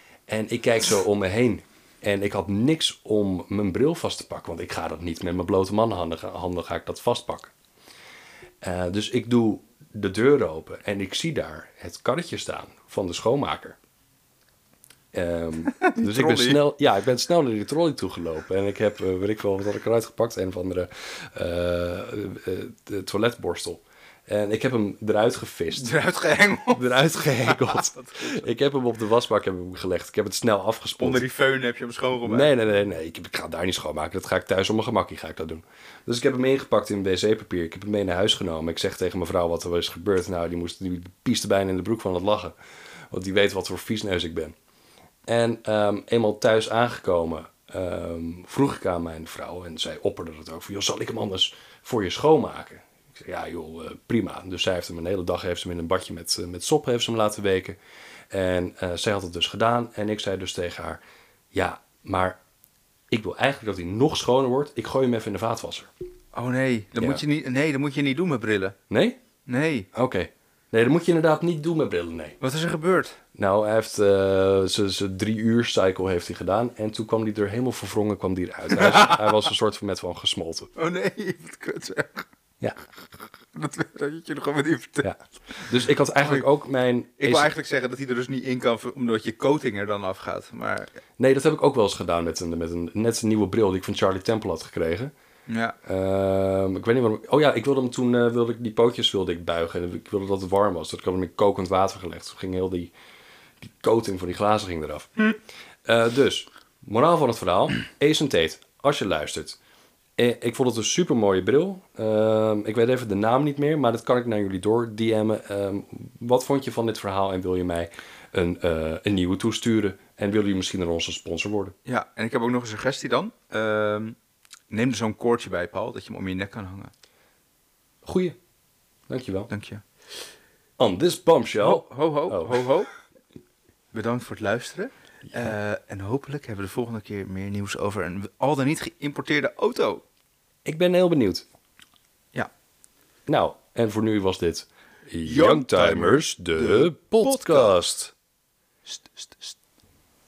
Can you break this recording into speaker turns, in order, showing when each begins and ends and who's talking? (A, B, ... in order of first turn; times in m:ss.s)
0:00.3-0:07.5 A
0:08.6-0:13.8 A
0:15.1-0:25.9 A
0:15.8-0:16.6 B
0:25.7-0:28.3 B
0:26.7-0:31.2 A
0:31.0-0:32.5 B
0:32.2-0:42.5 A
0:43.1-0:44.5 A
0:45.2-0:57.8 A
0:58.3-1:01.0 A
1:01.5-1:02.4 A
1:03.1-1:05.9 A
1:06.3-1:08.8 B
1:07.0-1:07.2 A
1:08.9-1:09.2 A
1:09.4-1:09.9 B
1:09.9-1:12.4 A
1:12.4-1:13.2 B
1:13.3-1:20.7 A
1:18.7-1:19.4 B
1:20.8-1:22.3 B
1:23.5-1:25.6 B
1:25.0-1:27.5 A
1:26.2-1:26.4 B
1:27.2-1:30.9 B
1:31.2-1:35.1 A
1:35.5-1:35.8 B
1:35.8-1:42.9 A
1:43.6-1:45.1 A
1:45.8-1:49.6 A
1:50.2-2:01.7 A
2:01.8-2:04.2 B
2:04.7-2:06.9 B
2:08.0-2:08.4 A
2:09.1-2:09.5 A
2:09.5-2:09.8 B
2:10.8-2:12.7 A
2:11.6-2:12.9 B
2:13.9-2:20.0 B
2:20.6-2:21.4 A
2:23.3-2:28.1 A
2:25.2-2:27.8 B
2:28.8-2:29.6 B